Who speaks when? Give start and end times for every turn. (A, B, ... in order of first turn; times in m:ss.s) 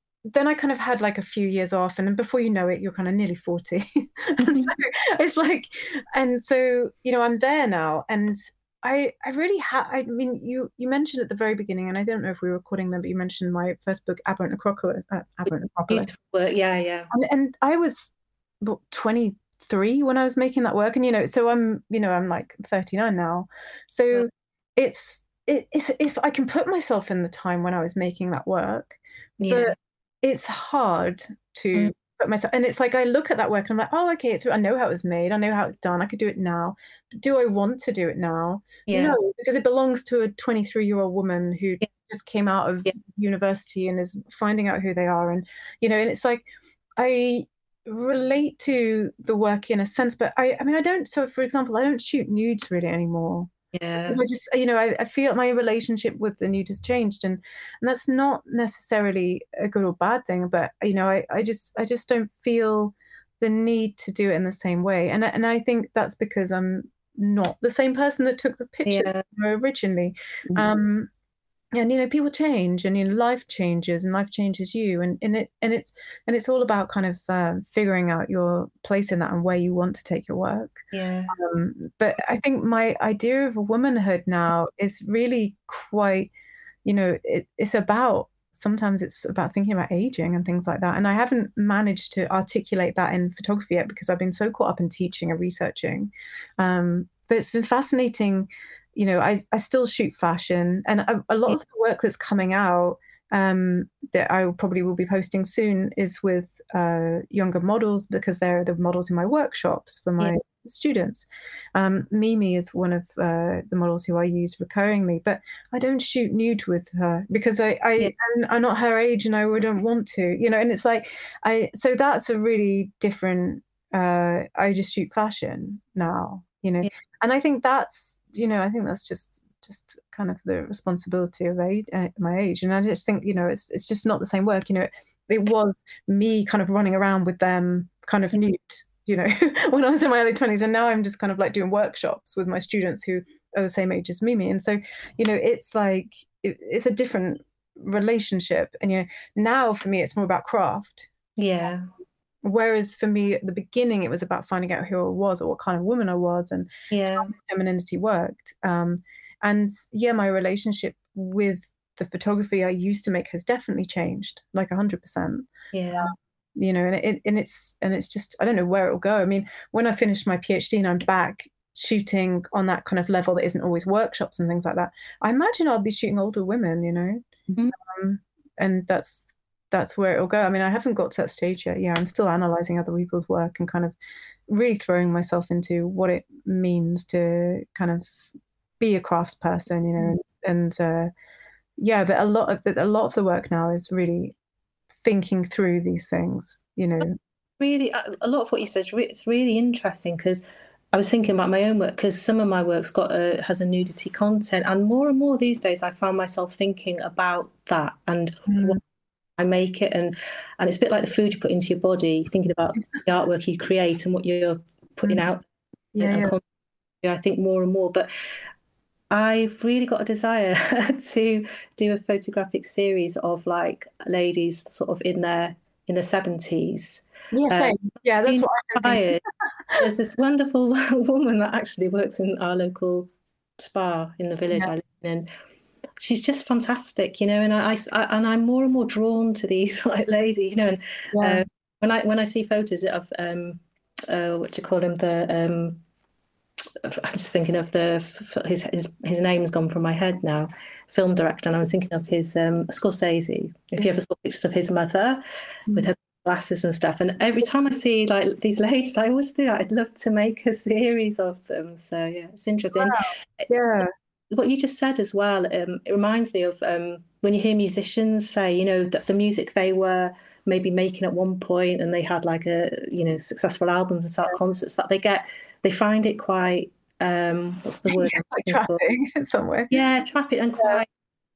0:00.3-0:16.1 A
0:04.4-0:04.7 B
0:15.9-0:17.1 B
0:17.1-1:11.1 A
0:29.4-0:29.7 B
0:38.9-0:39.2 B
0:53.7-0:54.2 B
1:08.8-1:09.2 B
1:11.7-1:26.3 A
1:20.9-1:21.3 B
1:26.8-2:31.1 A
2:31.4-2:31.9 B
2:32.4-2:57.2 A
2:36.9-2:37.3 B
2:45.7-2:46.1 B
2:57.8-3:03.9 A
3:04.5-3:08.2 A
3:08.8-3:11.1 A
3:11.8-3:14.3 A
3:15.0-3:17.2 A
3:17.6-3:28.8 B
3:28.5-3:28.8 A
3:29.4-3:35.4 B
3:36.0-3:36.4 A
3:36.0-3:36.4 B
3:37.0-3:38.1 B
3:39.1-3:47.8 B
3:47.3-3:49.2 A
3:48.3-3:49.2 B
3:49.8-3:55.3 B
3:56.0-4:05.8 B
4:01.1-4:01.4 A
4:06.8-4:15.2 B
4:15.7-4:23.5 B
4:22.8-4:23.9 A
4:24.3-4:38.8 B
4:37.9-4:39.8 A
4:39.7-4:40.9 B